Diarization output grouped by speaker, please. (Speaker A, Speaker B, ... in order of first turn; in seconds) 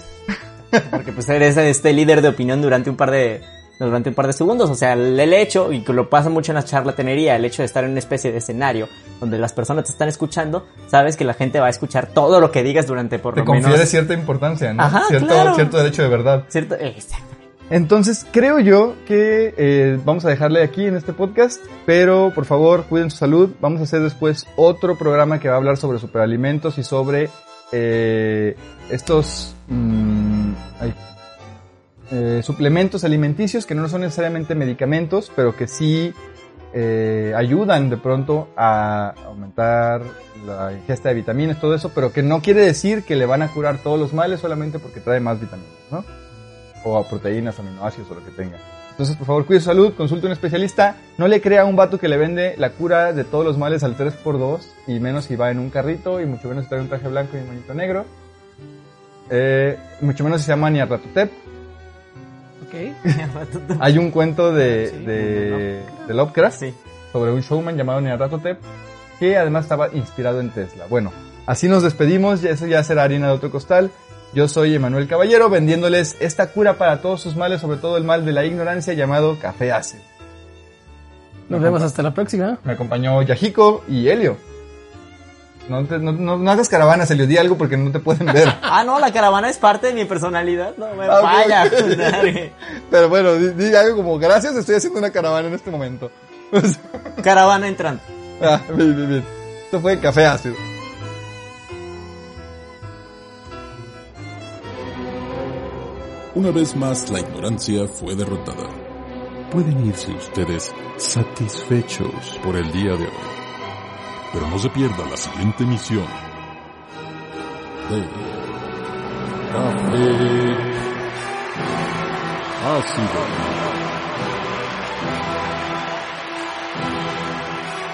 Speaker A: 0.8-13.9, 14.8-15.8, 16.5-17.4, 63.0-64.0, 65.2-65.6, 66.5-66.8, 88.6-92.5, 97.2-98.1
Speaker B: 13.3-16.5, 17.7-31.0, 32.1-36.2, 36.7-46.1, 46.8-58.1, 59.3-61.4, 63.8-66.6, 67.1-68.6, 69.2-80.0, 81.5-81.9, 82.6-84.4, 85.7-88.6, 91.0-97.2, 98.4-100.6
Speaker C: 62.6-63.0, 64.8-65.5, 81.5-82.6
Speaker D: 106.3-108.8, 109.5-113.4, 114.3-116.2, 117.8-118.4, 119.5-120.7, 122.6-123.7